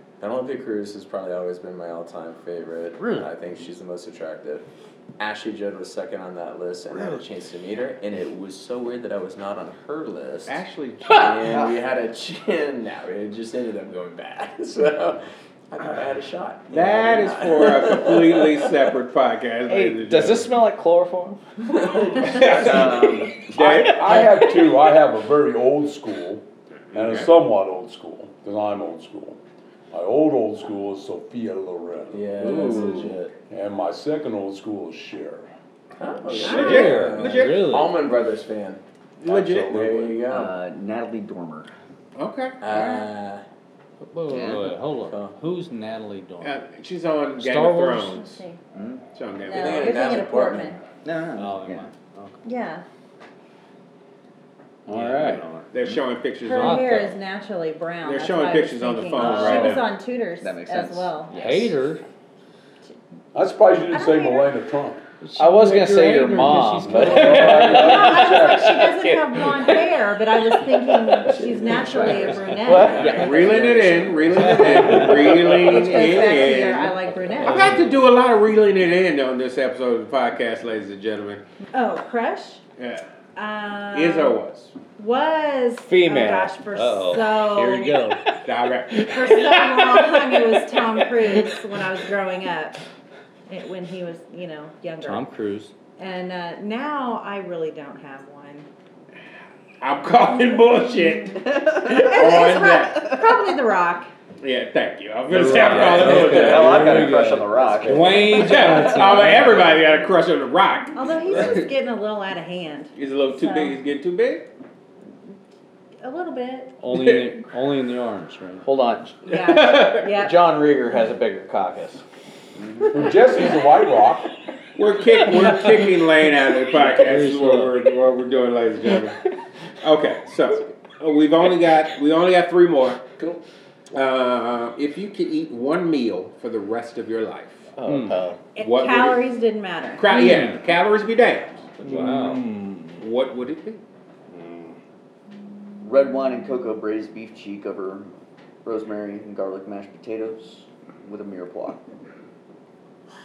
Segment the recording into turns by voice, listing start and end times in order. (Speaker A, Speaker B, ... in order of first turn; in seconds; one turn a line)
Speaker A: 0.2-4.7
Speaker B: 3.0-3.3
Speaker A: 5.2-18.7
Speaker C: 10.5-11.6
Speaker C: 16.7-20.5
Speaker D: 19.7-21.4
Speaker A: 21.7-23.1
Speaker E: 22.2-23.6
Speaker C: 22.2-24.3
Speaker F: 23.5-29.4
Speaker C: 26.9-27.3
Speaker F: 29.9-32.4
Speaker A: 32.1-33.3
Speaker B: 32.5-33.0
Speaker D: 32.5-33.3
Speaker G: 32.5-32.9
Speaker F: 33.5-35.5
Speaker A: 36.0-38.8
Speaker C: 36.4-37.7
Speaker G: 36.4-36.9
Speaker B: 36.4-37.9
Speaker C: 39.2-39.7
Speaker F: 39.2-40.2
Speaker A: 39.5-40.6
Speaker E: 40.2-41.7
Speaker C: 42.2-42.6
Speaker A: 42.6-43.4
Speaker G: 42.7-43.1
Speaker B: 44.0-46.6
Speaker E: 44.3-44.7
Speaker A: 44.9-45.4
Speaker C: 46.4-48.4
Speaker B: 47.4-48.2
Speaker G: 48.2-48.6
Speaker E: 48.7-49.0
Speaker C: 49.2-50.0
Speaker G: 49.5-50.8
Speaker A: 49.5-50.8
Speaker E: 51.0-51.9
Speaker B: 51.4-52.4
Speaker G: 52.4-52.8
Speaker B: 54.9-55.7
Speaker D: 54.9-55.4
Speaker C: 55.7-56.9
Speaker G: 56.4-61.3
Speaker B: 56.5-57.1
Speaker C: 58.0-59.9
Speaker E: 59.2-61.8
Speaker B: 61.3-62.0
Speaker F: 63.3-65.0
Speaker G: 63.9-64.5
Speaker B: 65.2-68.0
Speaker D: 65.4-70.0
Speaker F: 66.7-68.8
Speaker G: 67.6-73.5
Speaker D: 70.6-73.7
Speaker A: 71.3-75.6
Speaker C: 72.9-81.4
Speaker B: 74.5-75.6
Speaker D: 74.8-75.1
Speaker G: 75.5-77.8
Speaker B: 77.5-77.8
Speaker G: 81.7-82.6
Speaker C: 82.8-83.1
Speaker G: 83.4-84.4
Speaker C: 83.9-84.8
Speaker G: 85.0-88.0
Speaker D: 85.8-86.5
Speaker B: 86.7-88.2
Speaker C: 88.5-89.5
Speaker G: 88.9-92.8
Speaker G: 93.5-95.3
Speaker B: 95.0-95.7
Speaker G: 96.0-98.7
Speaker C: 99.8-103.1
Speaker E: 101.5-102.0
Speaker G: 101.9-104.1
Speaker C: 104.4-107.0
Speaker B: 105.3-109.6
Speaker E: 105.7-109.6
Speaker A: 106.0-108.2
Speaker C: 108.2-111.7
Speaker G: 111.0-113.8
Speaker C: 113.0-114.5
Speaker G: 116.0-116.8
Speaker B: 116.8-118.7
Speaker C: 117.0-117.3
Speaker D: 118.6-122.0
Speaker G: 119.3-120.5
Speaker C: 119.4-120.1
Speaker F: 122.9-124.3
Speaker C: 124.8-129.2
Speaker B: 126.8-127.8
Speaker C: 129.8-133.1
Speaker C: 133.9-137.7
Speaker D: 137.8-138.4
Speaker B: 137.8-138.2
Speaker G: 138.6-140.2
Speaker C: 138.6-139.3
Speaker C: 140.0-141.7
Speaker B: 140.1-140.6
Speaker B: 141.8-142.5
Speaker D: 141.9-143.0
Speaker C: 143.0-143.8
Speaker D: 144.3-144.7
Speaker E: 145.8-148.1
Speaker E: 148.7-151.8